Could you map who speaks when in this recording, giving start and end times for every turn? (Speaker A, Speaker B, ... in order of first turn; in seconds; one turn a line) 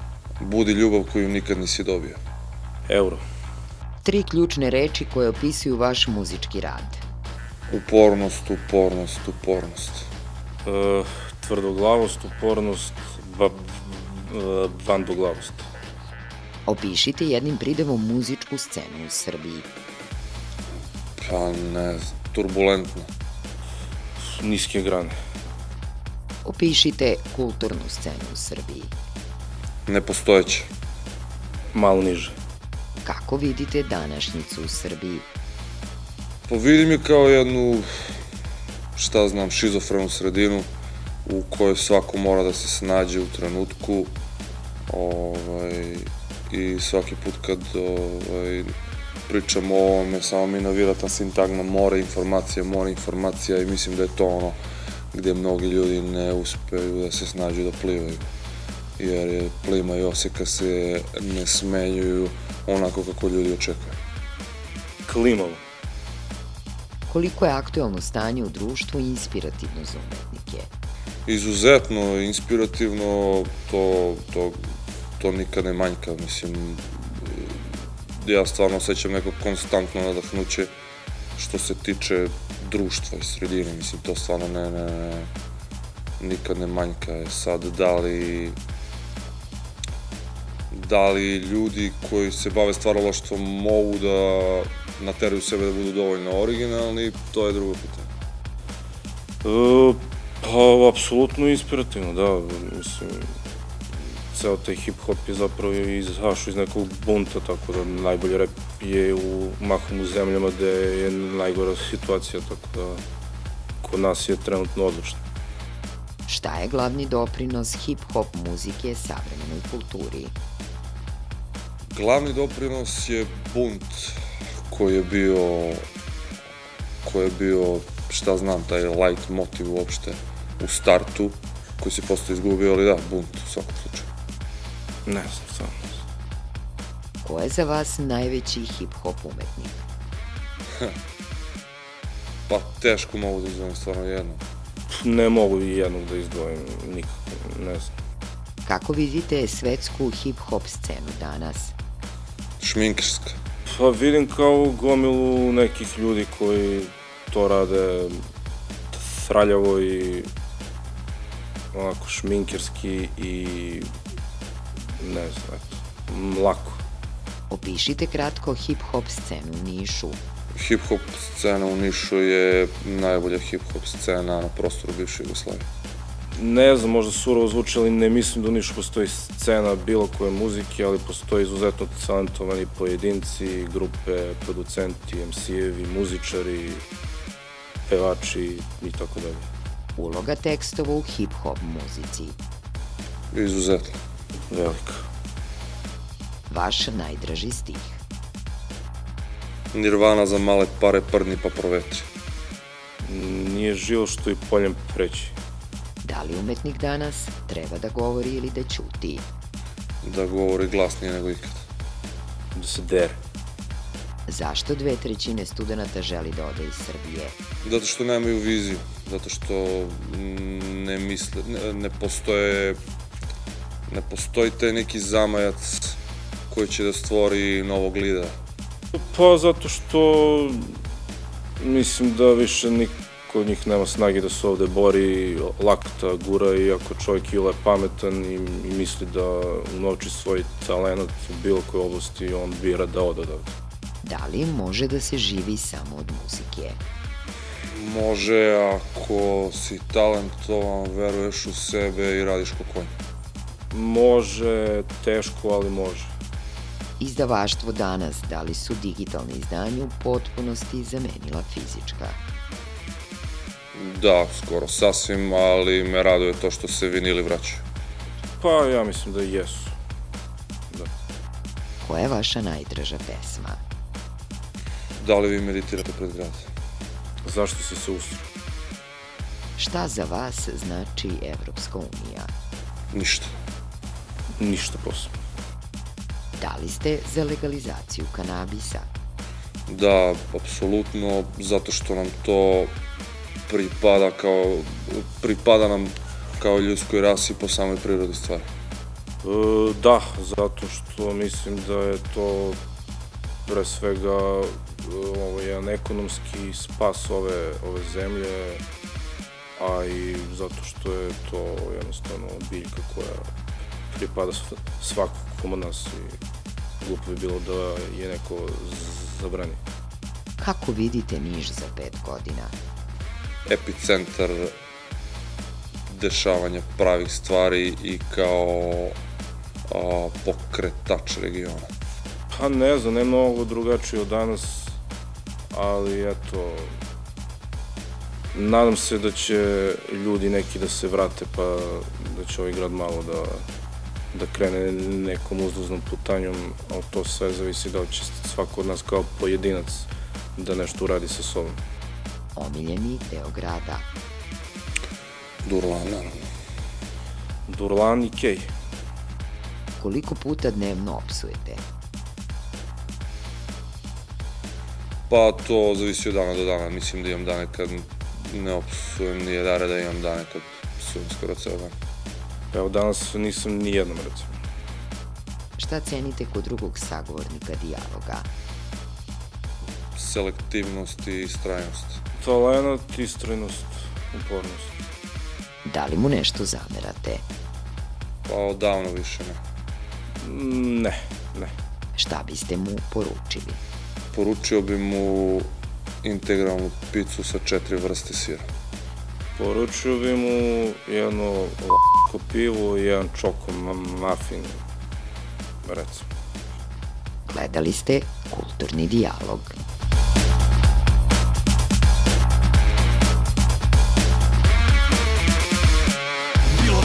Speaker A: 0.4-2.2
Speaker B: 2.9-3.2
Speaker C: 4.0-7.0
Speaker A: 7.7-10.1
Speaker B: 10.6-15.7
Speaker C: 16.6-19.7
Speaker A: 21.2-23.1
Speaker B: 24.2-25.1
Speaker C: 26.4-28.9
Speaker A: 29.9-30.7
Speaker B: 31.7-32.4
Speaker C: 33.0-35.3
Speaker A: 36.5-38.1
Speaker A: 38.9-40.7
Speaker A: 41.2-44.1
Speaker A: 44.9-48.7
Speaker A: 49.3-54.6
Speaker A: 55.1-58.3
Speaker A: 59.0-64.0
Speaker B: 65.0-65.6
Speaker C: 67.1-70.7
Speaker A: 71.2-74.6
Speaker A: 75.2-80.7
Speaker A: 81.3-85.3
Speaker A: 86.2-88.6
Speaker A: 90.7-98.1
Speaker B: 99.4-103.3
Speaker B: 104.3-113.0
Speaker B: 113.8-115.2
Speaker C: 116.3-120.3
Speaker A: 121.9-124.2
Speaker A: 124.7-125.8
Speaker A: 127.0-134.1
Speaker B: 135.1-135.9
Speaker C: 137.2-139.8
Speaker A: 142.5-144.4
Speaker B: 144.9-147.9
Speaker C: 148.6-151.7
Speaker A: 152.6-153.4
Speaker B: 153.7-158.2
Speaker B: 158.9-160.3
Speaker B: 161.7-163.9
Speaker B: 165.0-166.8
Speaker C: 167.5-170.2
Speaker A: 170.5-175.6
Speaker B: 176.3-186.8
Speaker B: 187.9-189.5
Speaker C: 189.9-192.4
Speaker A: 193.3-194.0
Speaker B: 194.5-195.1
Speaker C: 196.5-198.0
Speaker A: 199.7-202.1
Speaker B: 203.0-205.4
Speaker C: 206.0-209.3
Speaker A: 210.0-211.6
Speaker B: 212.5-213.2
Speaker C: 214.3-217.3
Speaker A: 217.6-222.8
Speaker A: 223.9-228.3
Speaker B: 228.9-230.8
Speaker B: 231.6-243.5
Speaker C: 244.0-246.8
Speaker A: 247.7-252.9
Speaker B: 253.7-256.1
Speaker C: 257.0-262.2
Speaker A: 263.7-267.6
Speaker B: 268.4-269.8
Speaker C: 271.8-273.6
Speaker A: 274.9-276.5
Speaker B: 277.2-278.3
Speaker C: 279.6-282.3
Speaker A: 282.9-283.3
Speaker B: 284.4-285.1
Speaker C: 286.3-288.9
Speaker A: 289.7-292.8
Speaker A: 293.5-298.5
Speaker B: 299.2-302.6
Speaker B: 303.4-308.6
Speaker B: 309.6-313.2
Speaker B: 313.9-316.2
Speaker B: 316.8-319.6
Speaker C: 320.4-322.5
Speaker A: 323.4-324.5
Speaker A: 325.9-328.9
Speaker A: 329.7-331.7
Speaker B: 332.3-334.8
Speaker B: 335.5-336.8
Speaker B: 338.3-343.4
Speaker B: 344.1-351.6
Speaker C: 352.3-353.9
Speaker A: 355.4-356.2
Speaker B: 357.5-358.5
Speaker C: 359.8-361.6
Speaker A: 365.1-371.7
Speaker B: 372.5-374.3
Speaker C: 375.6-378.3
Speaker A: 379.9-382.0
Speaker B: 382.2-384.9
Speaker C: 385.6-387.2
Speaker A: 388.2-389.4
Speaker B: 390.2-391.5
Speaker C: 391.9-393.6
Speaker A: 394.1-395.5
Speaker A: 396.0-398.5
Speaker B: 399.4-404.6
Speaker B: 405.6-406.1
Speaker C: 407.3-409.6